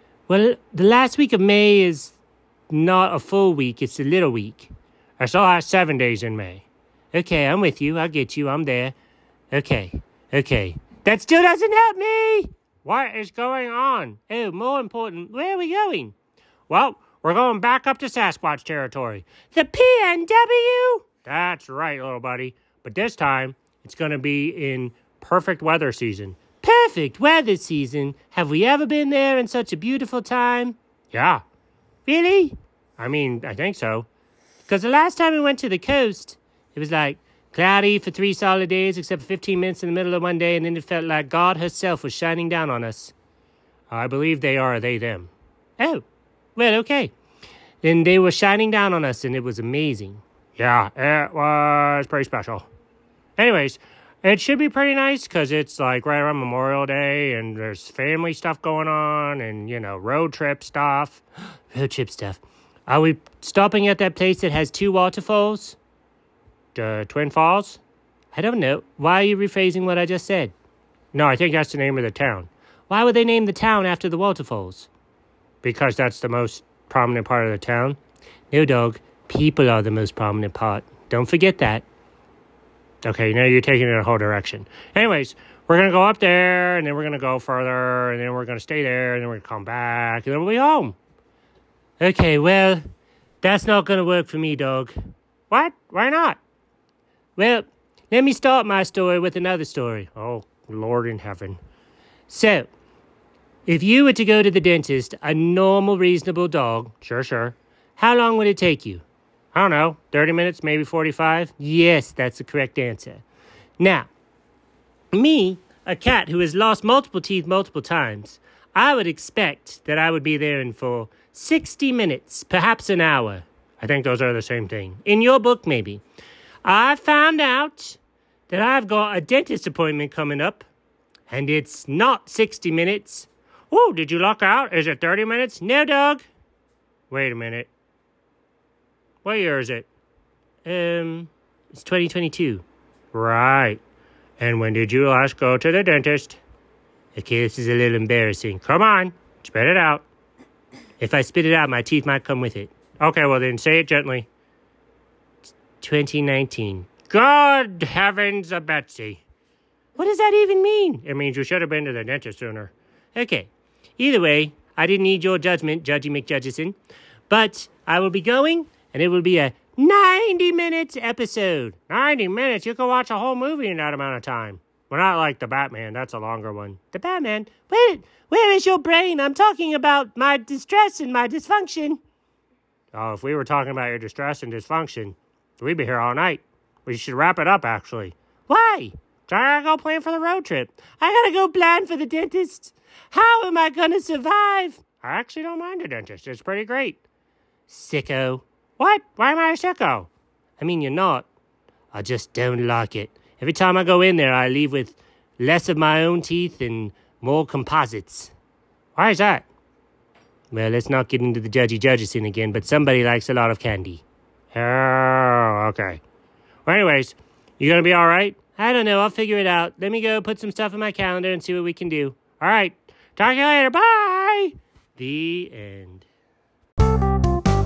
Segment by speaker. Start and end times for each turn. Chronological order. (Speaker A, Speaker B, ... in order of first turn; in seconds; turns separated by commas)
Speaker A: 0.3-2.1, Speaker A: 2.7-8.9, Speaker A: 9.5-16.1, Speaker A: 16.7-31.4, Speaker A: 32.0-34.1, Speaker A: 34.7-43.1, Speaker A: 43.9-46.0, Speaker A: 46.5-47.1, Speaker A: 47.8-52.7, Speaker A: 53.4-65.8, Speaker A: 66.7-67.8, Speaker A: 68.3-70.5, Speaker A: 71.1-74.9, Speaker A: 75.6-78.0, Speaker A: 78.5-81.8, Speaker A: 83.0-91.0, Speaker A: 92.0-92.8, Speaker A: 93.4-94.9, Speaker A: 95.5-96.4, Speaker A: 97.3-101.6, Speaker A: 102.3-102.7, Speaker A: 103.7-109.0, Speaker A: 109.5-113.2, Speaker A: 113.8-114.1, Speaker A: 115.1-126.0, Speaker A: 126.6-130.7, Speaker A: 131.3-136.2, Speaker A: 137.1-137.7, Speaker A: 139.2-139.9, Speaker A: 140.6-143.8, Speaker A: 144.4-146.4, Speaker A: 147.1-150.0, Speaker A: 151.0-154.3, Speaker A: 155.8-159.2, Speaker A: 159.9-166.8, Speaker A: 167.3-182.0, Speaker A: 182.9-197.0, Speaker A: 197.7-201.3, Speaker A: 201.9-208.3, Speaker A: 208.9-209.5, Speaker A: 210.5-216.0, Speaker A: 216.7-226.1